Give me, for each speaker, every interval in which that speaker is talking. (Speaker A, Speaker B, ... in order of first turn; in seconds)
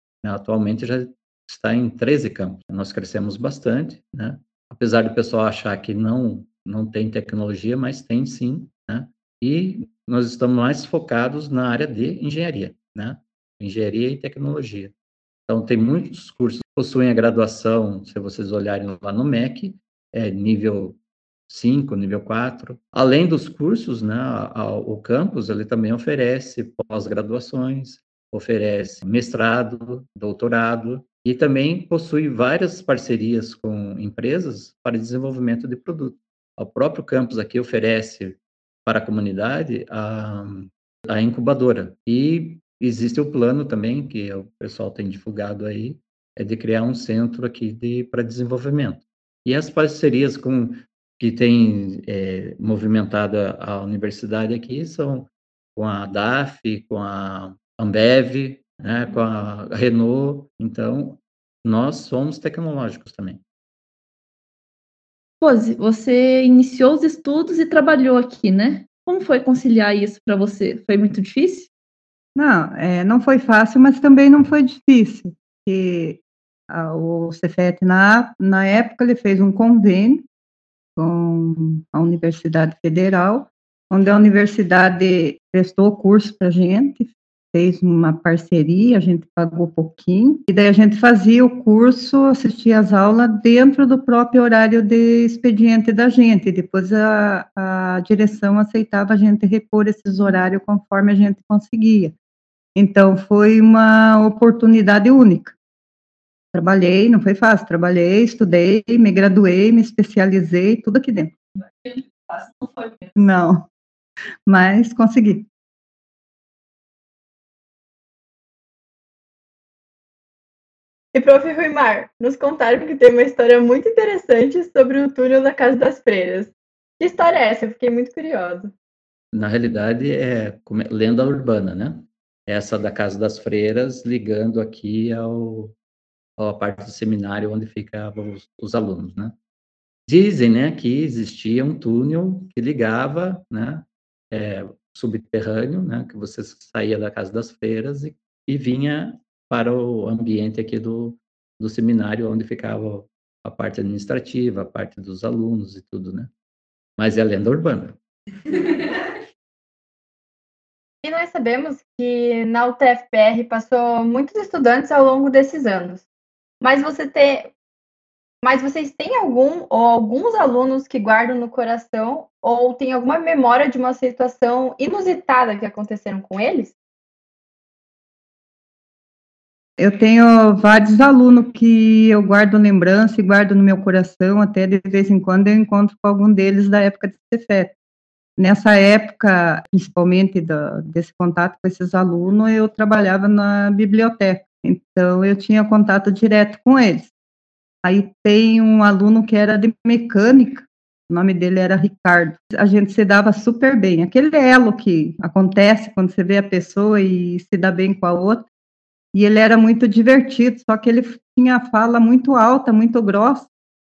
Speaker A: 0.2-14.9, 15.5-63.4, 129.3-135.7, 136.4-139.3, 140.1-156.3, 157.0-158.0
Speaker B: 65.4-71.7, 111.6-113.2
Speaker C: 72.3-80.2, 81.0-102.1, 102.7-105.5, 106.5-111.3, 113.2-113.7, 114.5-115.5, 179.8-187.7, 188.4-197.1, 197.8-208.4, 209.1-213.5
Speaker D: 121.1-128.7, 161.0-166.0, 166.6-167.5, 168.4-176.7